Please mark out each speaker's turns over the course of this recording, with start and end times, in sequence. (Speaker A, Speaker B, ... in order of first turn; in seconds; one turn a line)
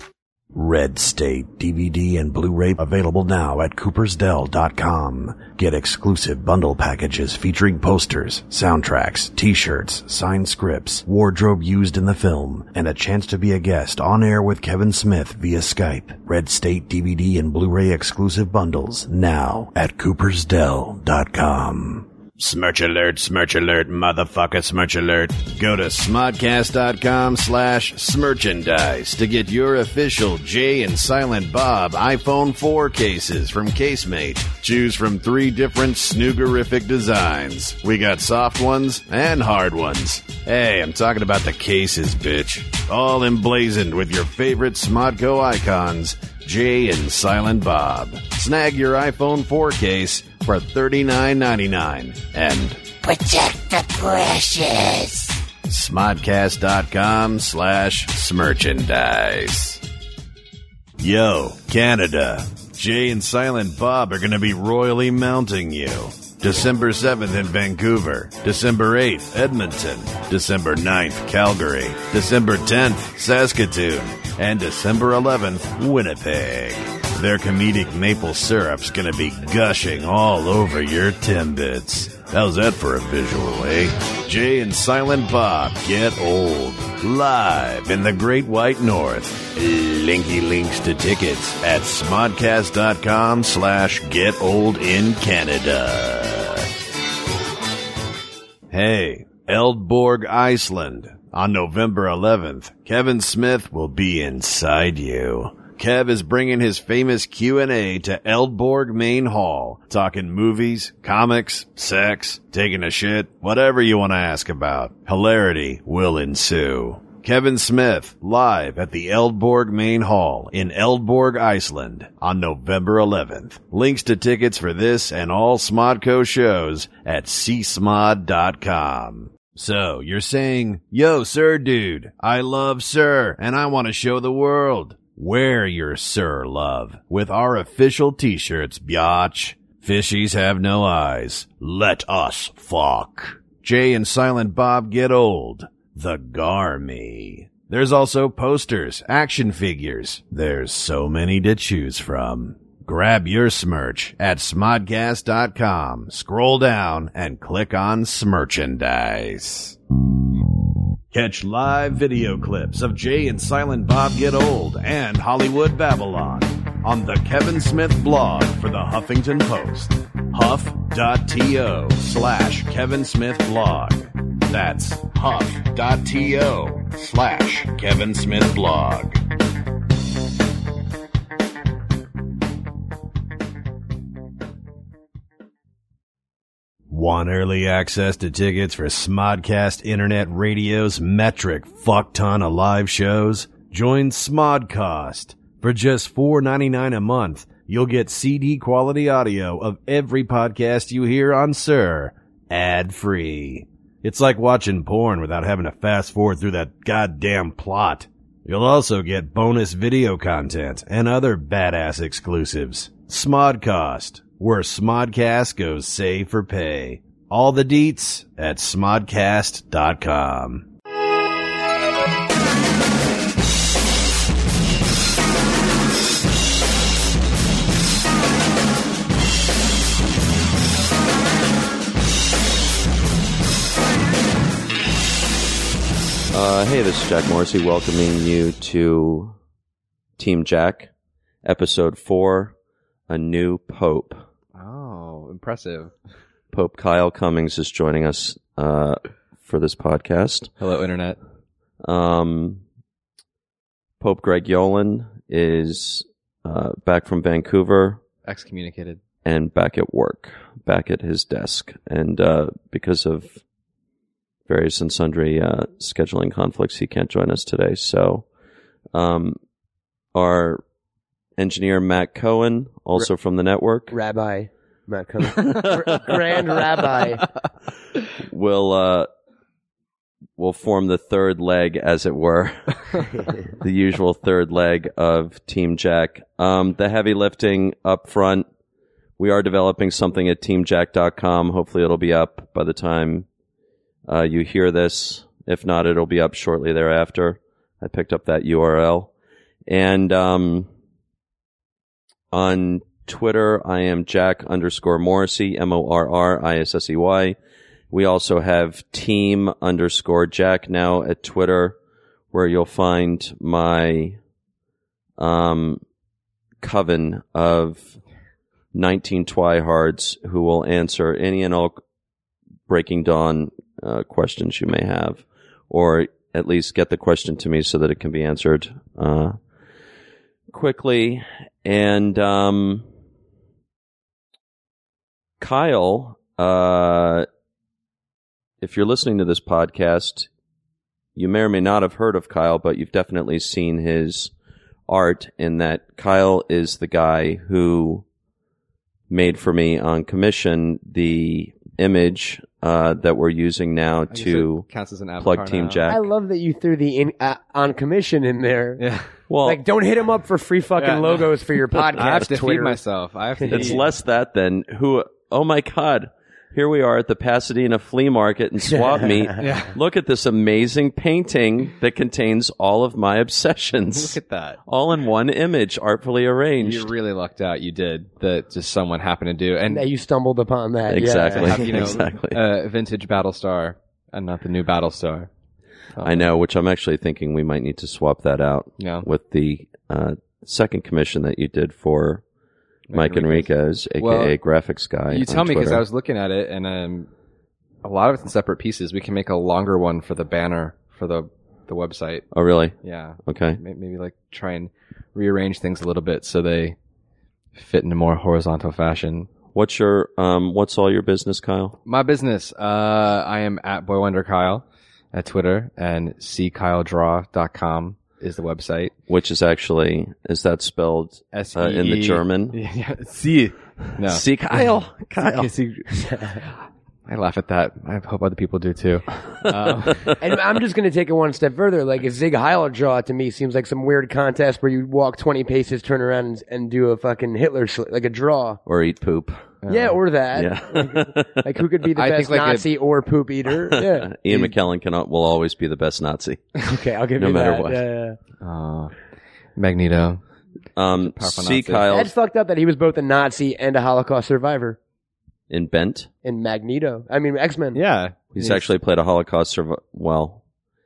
Speaker A: 0.5-52.8
Speaker B: 53.0-55.4
Speaker A: 55.7-59.8
Speaker A: 61.0-96.7
Speaker A: 98.7-159.8
Speaker A: 161.1-179.2
Speaker A: 186.9-220.7
Speaker C: 236.3-239.3
Speaker C: 240.2-240.9
Speaker C: 241.4-242.5
Speaker C: 243.1-244.2
Speaker D: 244.6-245.9
Speaker C: 246.5-250.5
Speaker D: 250.6-251.2
Speaker C: 251.8-252.6
Speaker C: 254.0-258.0
Speaker D: 258.2-259.0
Speaker C: 259.2-263.4
Speaker C: 264.5-268.2
Speaker C: 268.9-269.4
Speaker C: 270.1-270.6
Speaker C: 271.4-273.9
Speaker E: 273.9-277.3
Speaker C: 275.4-276.2
Speaker C: 278.2-279.1
Speaker C: 280.4-283.0
Speaker C: 283.5-288.4
Speaker C: 289.2-293.3
Speaker C: 294.1-299.1
Speaker C: 299.7-300.7
Speaker C: 302.3-307.4
Speaker C: 307.9-311.8
Speaker C: 312.3-314.2
Speaker C: 315.2-315.8
Speaker C: 316.6-317.9
Speaker C: 318.7-321.8
Speaker C: 322.7-329.4
Speaker C: 330.5-332.9
Speaker C: 335.4-337.3
Speaker C: 338.6-340.3
Speaker C: 341.1-344.3
Speaker C: 344.9-348.0
Speaker C: 349.1-354.6
Speaker D: 354.1-355.8
Speaker C: 355.2-356.1
Speaker E: 355.9-358.8
Speaker D: 358.8-359.1
Speaker C: 359.3-359.6
Speaker E: 359.4-362.8
Speaker D: 360.8-361.3
Speaker D: 361.9-363.8
Speaker C: 363.5-376.9
Speaker D: 369.4-369.8
Speaker D: 373.9-374.6
Speaker D: 376.6-379.9
Speaker E: 379.7-382.0
Speaker C: 380.9-382.4
Speaker D: 381.1-385.3
Speaker D: 385.9-386.3
Speaker C: 386.0-392.2
Speaker D: 388.8-389.1
Speaker D: 392.9-393.5
Speaker C: 392.9-395.8
Speaker D: 394.0-394.4
Speaker D: 395.1-397.1
Speaker D: 397.8-402.2
Speaker C: 402.3-402.7
Speaker D: 402.8-406.8
Speaker C: 403.2-403.6
Speaker D: 407.5-409.3
Speaker C: 409.5-411.8
Speaker D: 411.9-418.9
Speaker C: 419.1-422.6
Speaker D: 421.3-424.7
Speaker C: 424.0-425.5
Speaker D: 425.2-426.5
Speaker E: 425.9-426.4
Speaker D: 427.1-430.2
Speaker E: 430.2-438.6
Speaker C: 438.6-439.6
Speaker D: 439.6-440.0
Speaker E: 439.7-444.5
Speaker C: 440.3-441.5
Speaker D: 441.9-442.7
Speaker C: 443.5-446.6
Speaker E: 446.6-448.2
Speaker C: 447.1-447.8
Speaker D: 448.4-448.9
Speaker D: 449.6-450.2
Speaker C: 450.8-452.1
Speaker D: 450.9-451.9
Speaker E: 451.9-454.8
Speaker C: 455.5-456.1
Speaker E: 456.2-457.8
Speaker D: 457.7-458.6
Speaker C: 458.3-460.4